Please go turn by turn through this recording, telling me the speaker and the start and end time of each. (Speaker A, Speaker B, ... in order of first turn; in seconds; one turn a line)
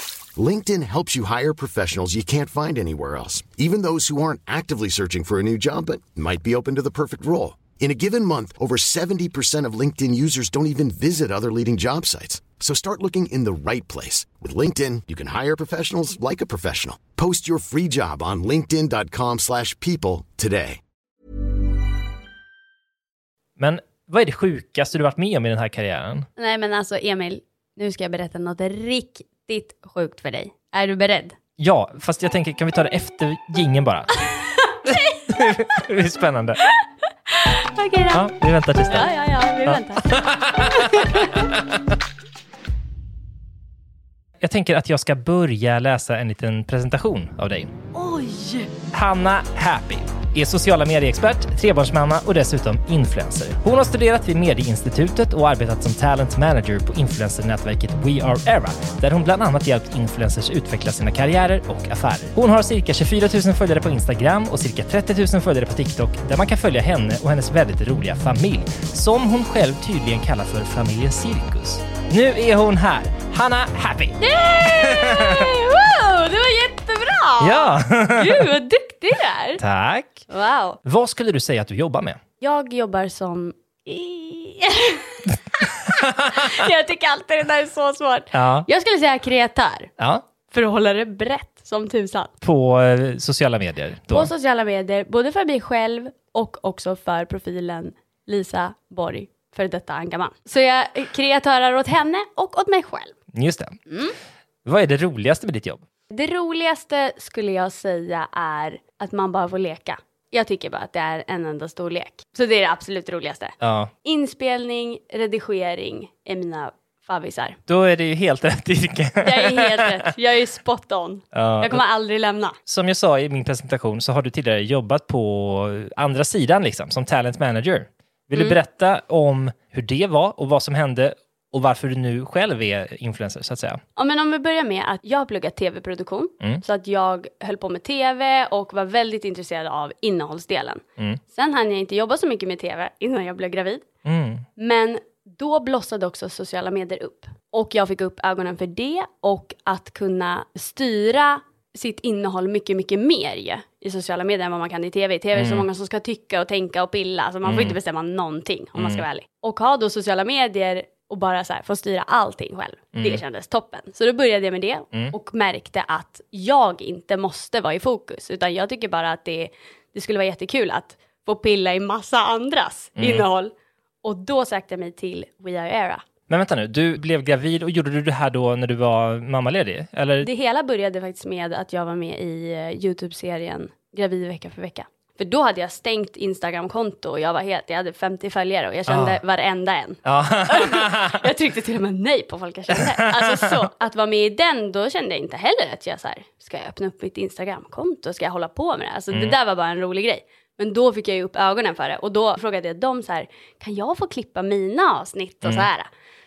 Speaker A: 0.3-20.8
Speaker B: 23.6-26.3
Speaker C: 26.4-31.4
Speaker B: 31.6-34.1
Speaker C: 34.3-35.6
Speaker B: 34.9-36.6
Speaker C: 37.3-38.3
Speaker B: 38.1-39.1
Speaker C: 38.9-41.5
Speaker B: 39.7-41.6
Speaker B: 44.4-47.7
Speaker C: 47.9-48.7
Speaker B: 48.9-75.5
Speaker C: 74.2-79.6
Speaker B: 77.4-78.5
Speaker B: 79.6-80.2
Speaker C: 80.3-80.8
Speaker B: 80.8-82.2
Speaker C: 82.4-89.9
Speaker B: 85.6-86.6
Speaker B: 88.3-88.7
Speaker B: 90.0-90.2
Speaker C: 90.5-92.3
Speaker B: 92.4-94.3
Speaker C: 94.1-103.2
Speaker B: 103.3-103.8
Speaker C: 103.9-104.2
Speaker B: 104.7-105.8
Speaker C: 106.1-117.6
Speaker B: 113.6-113.9
Speaker B: 117.7-120.0
Speaker C: 119.2-122.6
Speaker B: 121.3-121.8
Speaker B: 122.7-133.8
Speaker C: 134.0-143.8
Speaker B: 144.1-144.4
Speaker C: 144.6-176.0
Speaker B: 155.3-155.7
Speaker B: 157.4-157.8
Speaker B: 158.8-159.0
Speaker B: 162.9-163.2
Speaker B: 173.0-173.3
Speaker B: 176.3-180.3
Speaker C: 180.2-205.9
Speaker B: 188.9-189.2
Speaker B: 190.1-191.2
Speaker B: 192.8-193.7